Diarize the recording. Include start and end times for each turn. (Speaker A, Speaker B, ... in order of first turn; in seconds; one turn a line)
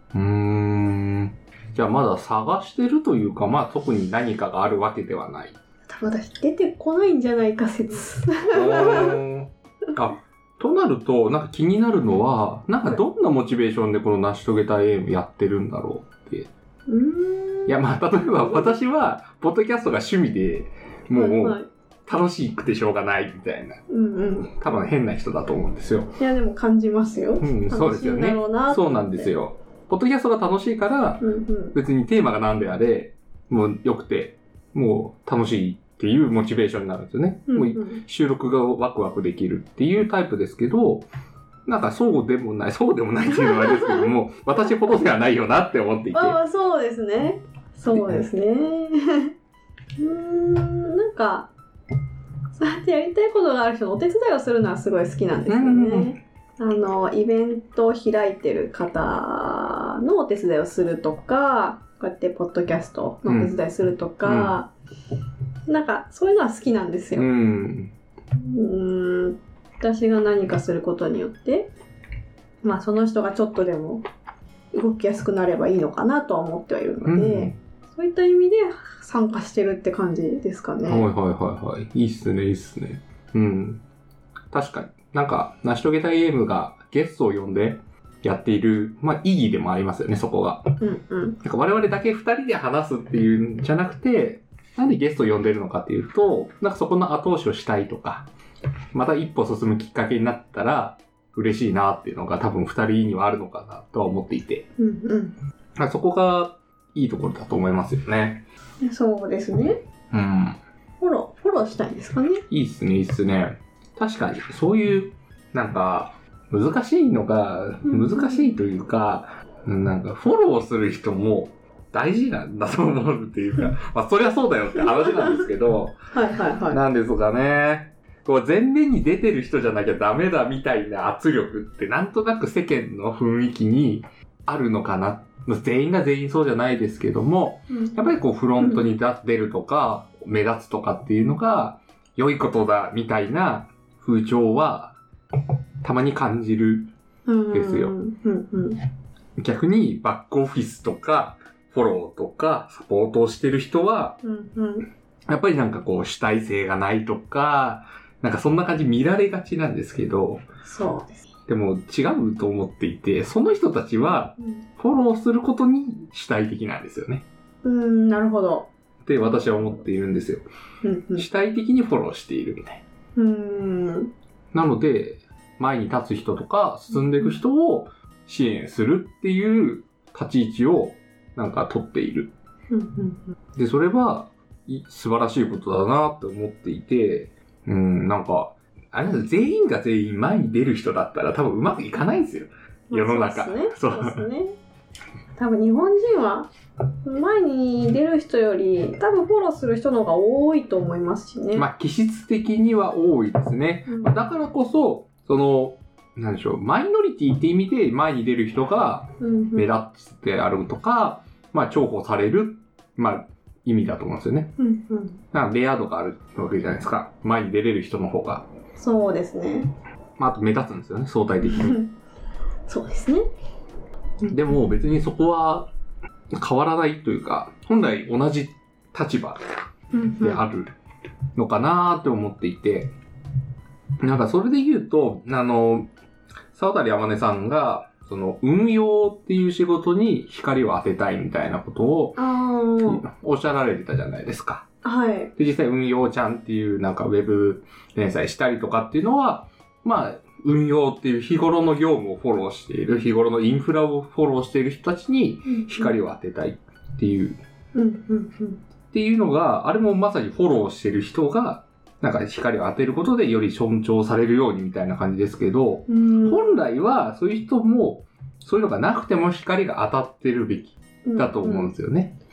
Speaker A: 0.1-5.6
Speaker B: 5.9-9.2
Speaker A: 8.5-16.5
Speaker B: 16.9-17.8
Speaker A: 17.7-23.8
Speaker B: 18.4-18.7
Speaker B: 21.1-21.7
Speaker B: 23.9-24.8
Speaker A: 24.5-26.1
Speaker B: 26.2-29.3
Speaker A: 27.4-41.1
Speaker B: 31.2-31.8
Speaker B: 37.5-38.0
Speaker A: 41.6-46.4
Speaker B: 43.3-44.1
Speaker B: 46.1-49.3
Speaker A: 47.9-48.3
Speaker B: 50.0-51.5
Speaker B: 52.5-64.7
Speaker A: 55.5-56.2
Speaker A: 63.2-63.5
Speaker A: 64.2-64.5
Speaker B: 65.7-67.3
Speaker A: 67.1-67.9
Speaker B: 68.4-71.7
Speaker B: 72.6-74.0
Speaker B: 74.7-81.1
Speaker A: 77.0-77.6
Speaker A: 80.9-83.8
Speaker A: 84.5-90.7
Speaker B: 90.8-91.4
Speaker A: 91.4-98.3
Speaker A: 98.9-104.7
Speaker B: 104.8-105.3
Speaker A: 105.8-108.4
Speaker B: 108.8-109.8
Speaker A: 110.1-110.6
Speaker B: 111.0-112.4
Speaker A: 112.5-125.9
Speaker B: 117.8-118.5
Speaker B: 124.8-125.4
Speaker B: 126.1-126.8
Speaker A: 126.7-144.9
Speaker B: 137.7-138.0
Speaker B: 138.6-138.8
Speaker A: 145.8-146.9
Speaker B: 147.2-148.8
Speaker A: 147.5-147.9
Speaker A: 149.4-154.2
Speaker B: 154.2-154.9
Speaker A: 155.3-160.4
Speaker B: 160.6-161.3
Speaker A: 161.5-167.2
Speaker B: 167.6-168.7
Speaker A: 169.0-170.4
Speaker B: 170.8-171.3
Speaker A: 171.2-172.8
Speaker B: 173.2-174.1
Speaker A: 174.5-182.3
Speaker B: 182.7-183.3
Speaker A: 183.6-194.2
Speaker B: 192.9-194.5
Speaker B: 195.4-196.5
Speaker B: 197.0-201.7
Speaker A: 201.5-214.5
Speaker B: 203.9-204.2
Speaker B: 209.2-209.7
Speaker B: 214.6-215.2
Speaker A: 215.3-218.4
Speaker B: 218.8-219.7
Speaker A: 220.2-221.8
Speaker B: 221.4-221.9
Speaker B: 222.7-223.2
Speaker A: 224.3-225.7
Speaker A: 226.3-229.5
Speaker B: 229.9-230.4
Speaker A: 230.2-230.7
Speaker A: 231.3-232.9
Speaker A: 234.0-235.9
Speaker A: 236.5-242.2
Speaker B: 242.2-243.0
Speaker A: 242.8-244.7
Speaker B: 244.8-245.3
Speaker A: 245.4-257.4
Speaker B: 255.4-256.0
Speaker B: 257.7-258.6
Speaker A: 258.9-272.1
Speaker B: 265.9-266.6
Speaker B: 271.0-271.7